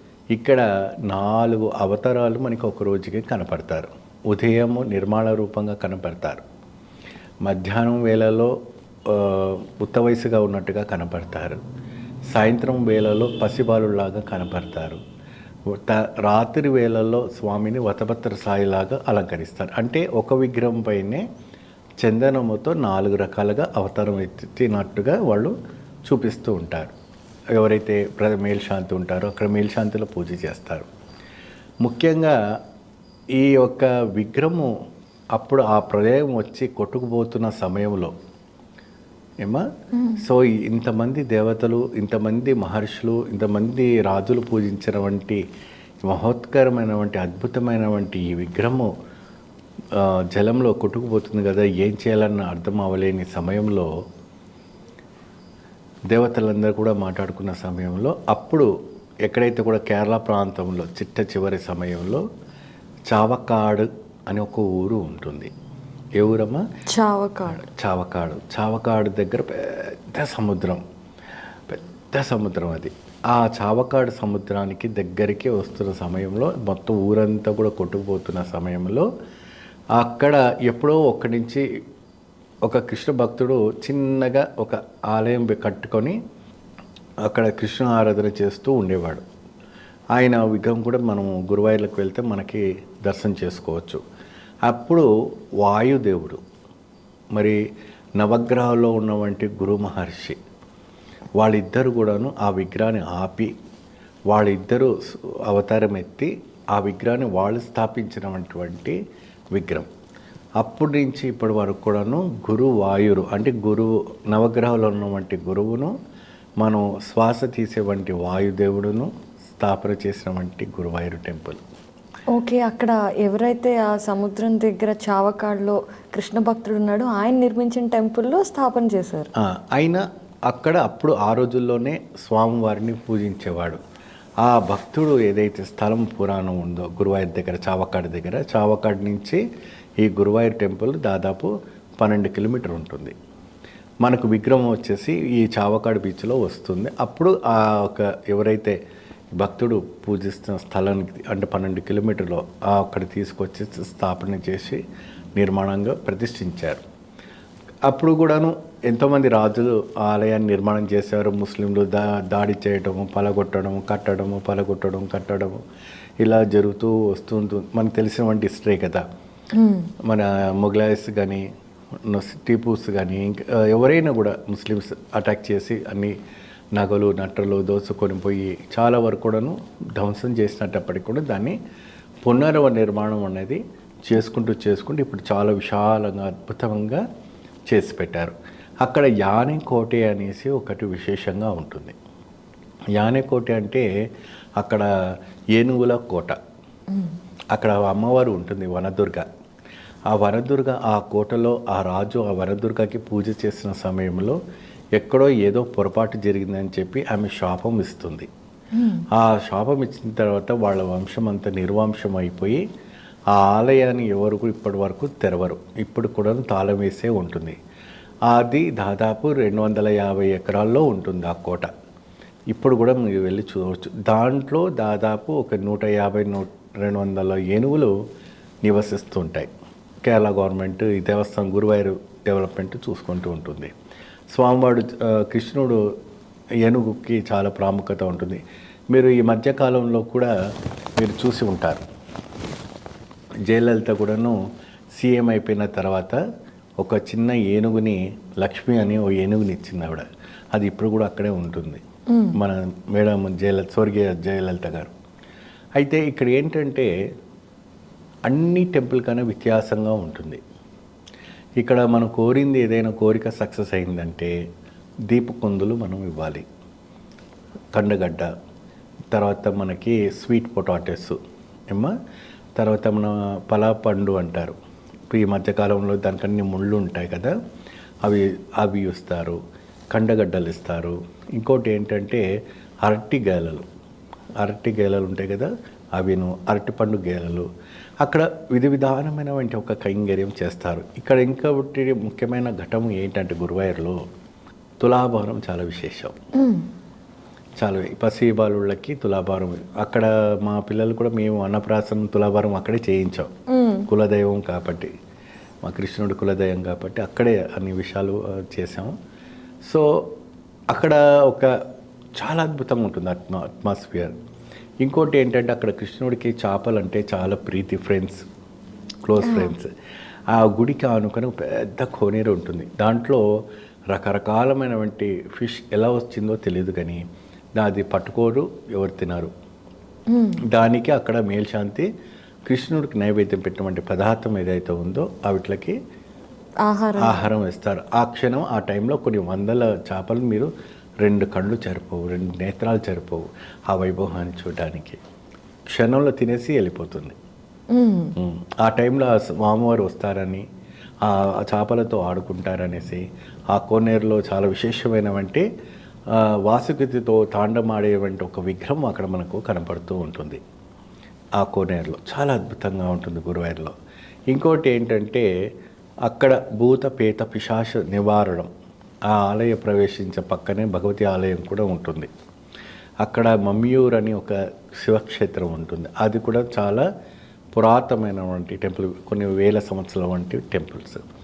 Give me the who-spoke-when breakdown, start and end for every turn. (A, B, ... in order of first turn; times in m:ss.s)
0:00.3-0:06.4 A
0:07.4-0:11.6 A
0:12.3-0:15.0 A
0:15.7-0:21.2 A
0:22.0-0:26.9 A
0:27.6-0:30.9 A
0:31.8-0:32.4 A
0:33.4-0:34.7 A
0:35.3-0:38.1 A
0:39.4-0:45.4 A
0:46.0-0:48.9 A
0:49.9-0:53.9 A
0:56.1-0:58.7 A
0:59.2-1:02.2 A
1:03.1-1:05.5 A
1:06.2-1:06.6 A
1:06.9-1:07.6 B
1:07.6-1:10.8 A
1:11.7-1:19.1 A
1:20.0-1:21.6 A
1:22.7-1:26.2 A
1:27.2-1:29.2 A
1:30.2-1:34.0 A
1:34.7-1:35.1 A
1:35.6-1:36.4 A
1:37.4-1:37.6 A
1:38.2-1:40.4 A
1:41.4-1:43.5 A
1:44.3-1:49.0 A
1:49.5-1:49.9 A
1:50.6-1:55.9 A
1:56.6-2:01.6 A
2:02.4-2:09.3 B
2:09.4-2:13.8 A
2:14.4-2:19.4 A
2:20.0-2:23.2 A
2:24.0-2:28.8 A
2:29.4-2:34.8 A
2:35.4-2:36.8 A
2:37.9-2:45.6 A
2:46.2-2:49.0 A
2:49.5-2:49.9 B
2:50.0-2:51.4 A
2:52.0-2:56.2 A
2:56.8-3:01.6 A
3:02.2-3:07.0 A
3:07.7-3:12.0 A
3:13.0-3:13.9 A
3:14.6-3:14.9 A
3:15.6-3:16.4 A
3:17.5-3:19.3 A
3:20.1-3:24.4 A
3:25.0-3:28.3 A
3:28.7-3:29.1 B
3:29.1-3:32.6 A
3:33.3-3:37.6 A
3:38.3-3:41.7 A
3:42.5-3:47.9 A
3:48.6-3:49.5 A
3:50.0-3:53.7 A
3:54.3-3:55.9 A
3:56.6-4:00.3 A
4:01.0-4:01.8 A
4:03.5-4:04.4 A
4:04.9-4:06.2 A
4:06.8-4:11.8 A
4:12.1-4:12.4 B
4:12.3-4:14.9 A
4:15.8-4:16.9 A
4:18.3-4:20.4 A
4:21.6-4:24.4 A
4:25.1-4:26.5 A
4:27.7-4:28.3 A
4:29.1-4:31.2 A
4:32.6-4:34.6 A
4:35.1-4:37.4 A
4:38.0-4:39.4 A
4:39.9-4:42.2 A
4:42.8-4:43.7 A
4:44.4-4:47.5 A
4:48.0-4:54.0 A
4:54.8-4:56.2 A
4:56.4-4:56.7 B
4:57.6-5:03.3 A
5:03.5-5:03.9 B
5:03.9-5:04.9 A
5:05.6-5:08.9 A
5:09.6-5:10.1 A
5:10.7-5:11.5 A
5:12.2-5:14.1 A
5:14.8-5:18.2 A
5:19.1-5:19.7 A
5:19.2-5:19.6 B
5:20.3-5:23.2 A
5:23.9-5:27.0 A
5:27.6-5:29.3 A
5:30.1-5:30.4 B
5:30.5-5:31.9 A
5:32.5-5:35.8 A
5:36.7-5:37.2 B
5:37.0-5:40.5 A
5:41.0-5:45.0 A
5:45.7-5:47.2 A
5:47.7-5:48.2 B
5:48.2-5:50.4 A
5:51.0-5:55.5 A
5:56.1-6:00.4 A
6:01.4-6:03.8 A
6:04.3-6:05.3 A
6:06.1-6:08.5 A
6:09.1-6:12.1 A
6:13.0-6:16.9 A
6:17.5-6:21.0 A